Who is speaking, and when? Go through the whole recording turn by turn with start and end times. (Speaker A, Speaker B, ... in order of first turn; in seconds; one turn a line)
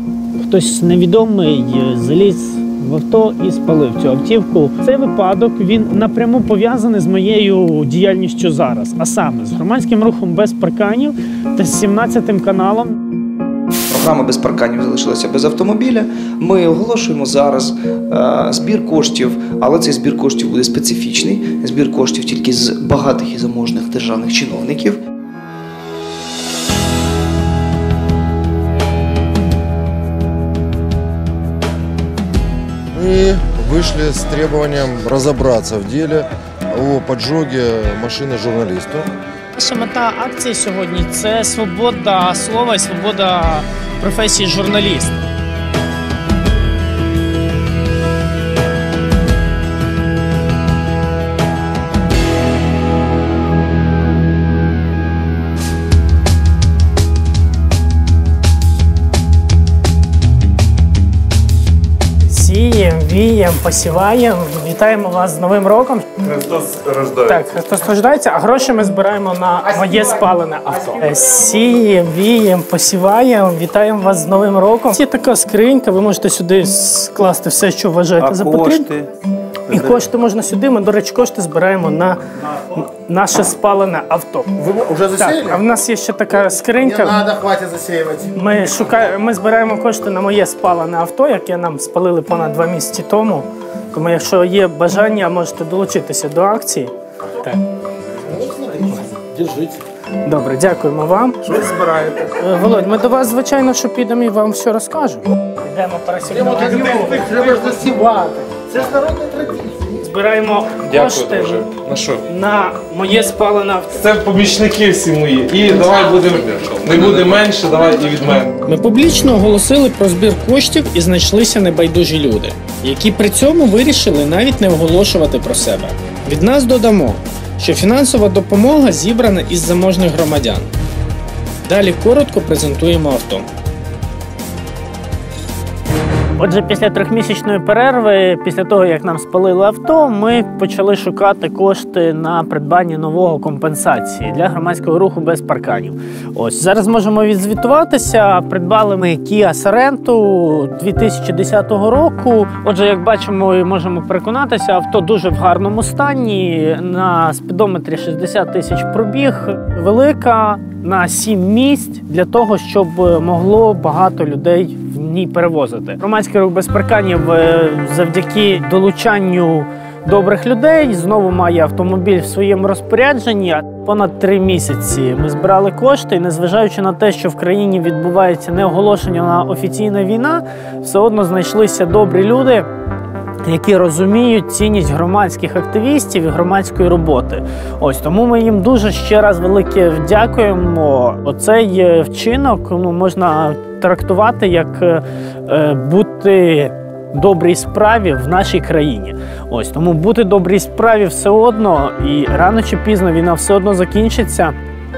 Speaker A: 0.4-13.0
Speaker B: 13.9-25.0
Speaker C: 32.9-39.0
Speaker A: 39.5-45.2
Speaker A: 62.2-66.1
Speaker D: 66.3-67.3
Speaker A: 67.3-78.9
Speaker B: 78.2-78.8
Speaker A: 79.7-82.2
Speaker A: 83.1-84.5
Speaker E: 84.6-85.6
Speaker A: 85.2-87.1
Speaker E: 86.9-88.3
Speaker A: 88.3-96.9
Speaker E: 98.3-98.9
Speaker A: 100.2-107.7
Speaker E: 101.9-102.4
Speaker E: 106.3-109.9
Speaker A: 109.9-111.6
Speaker D: 110.8-112.2
Speaker A: 112.3-113.9
Speaker D: 113.9-118.5
Speaker A: 118.6-130.7
Speaker A: 131.6-133.5
Speaker A: 136.3-182.7
Speaker A: 183.4-204.6